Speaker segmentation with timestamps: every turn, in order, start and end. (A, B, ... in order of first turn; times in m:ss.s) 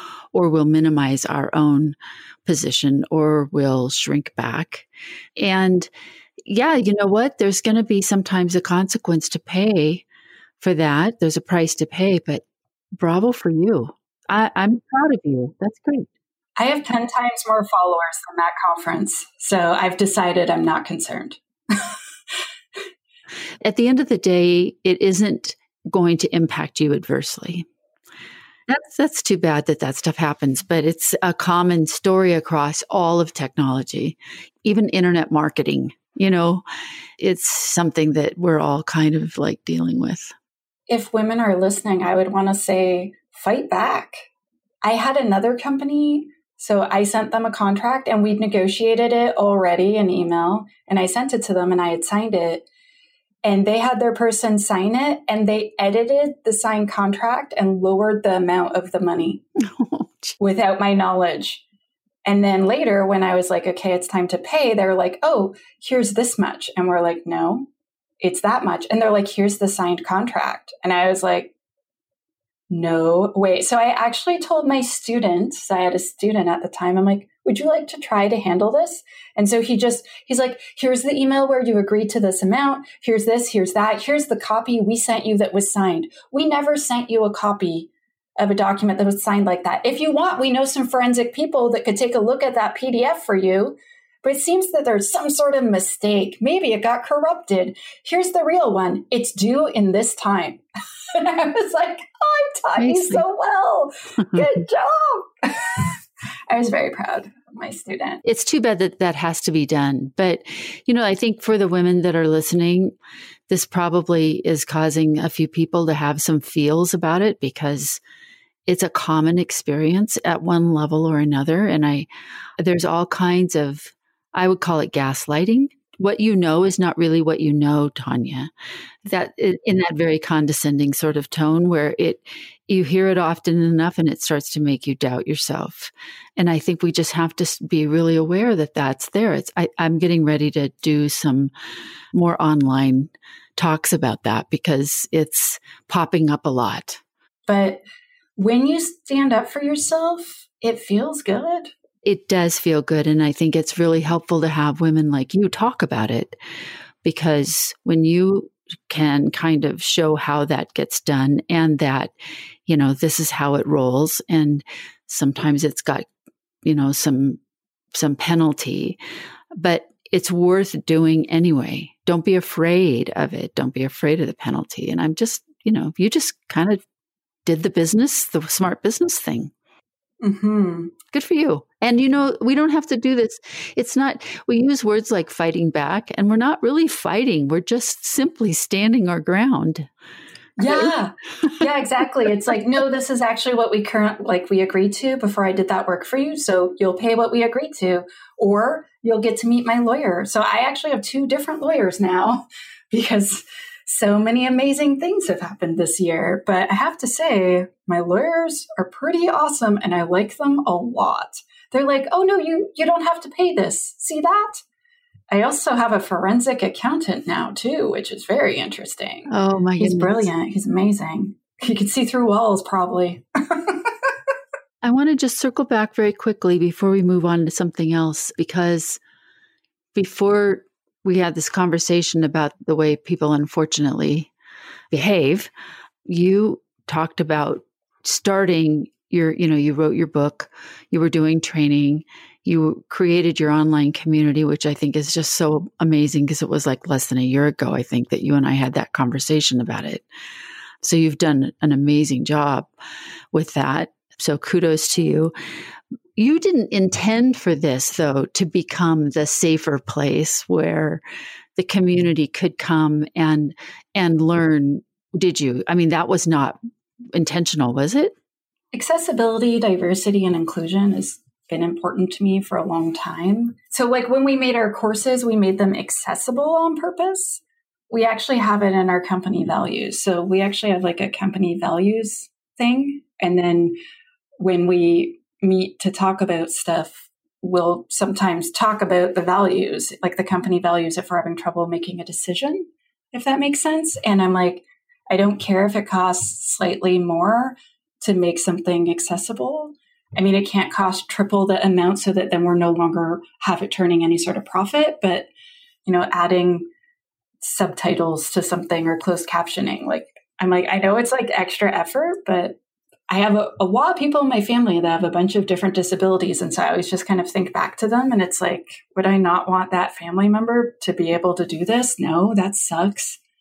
0:00.3-0:05.9 A
0:06.4-0:10.0 A
0:10.6-0:12.4 A
0:13.0-0:16.1 A
0:16.6-0:21.8 B
0:23.6-0:27.7 A
0:28.7-0:36.6 A
0:37.2-0:40.3 A
0:40.9-0:44.2 B
0:44.8-0:52.6 B
0:53.4-0:59.4 B
0:59.7-1:00.4 A
1:00.4-1:01.6 B
1:02.2-1:07.6 B
1:08.2-1:11.5 B
1:12.7-1:40.6 B
1:41.1-1:45.9 B
1:42.8-1:43.2 A
1:46.5-1:48.2 B
1:48.2-1:52.9 A
1:53.5-1:58.0 A
1:58.7-2:02.1 A
2:02.6-2:08.5 A
2:09.0-2:21.5 A
2:22.1-2:27.0 A
2:27.5-2:27.8 B
2:28.4-2:31.7 B
2:32.0-2:36.4 A
2:37.0-2:42.1 A
2:42.6-2:46.1 A
2:46.6-2:47.4 A
2:47.9-2:49.0 A
2:49.6-2:56.8 A
2:57.4-2:59.5 A
3:00.2-3:00.9 B
3:01.1-3:09.9 A
3:10.6-3:34.6 B
3:10.6-3:10.9 A
3:35.3-3:43.9 B
3:39.3-3:40.3 A
3:44.8-3:49.0 A
3:49.9-3:54.3 A
3:54.9-3:55.5 A
3:56.0-4:10.0 A
4:10.8-4:12.7 A
4:13.3-4:15.3 A
4:16.2-4:21.0 A
4:21.6-4:26.6 A
4:27.1-4:28.2 A
4:28.7-4:43.8 B
4:44.4-5:05.3 B
5:05.8-5:06.6 B
5:07.4-5:12.6 B
5:13.1-5:23.2 B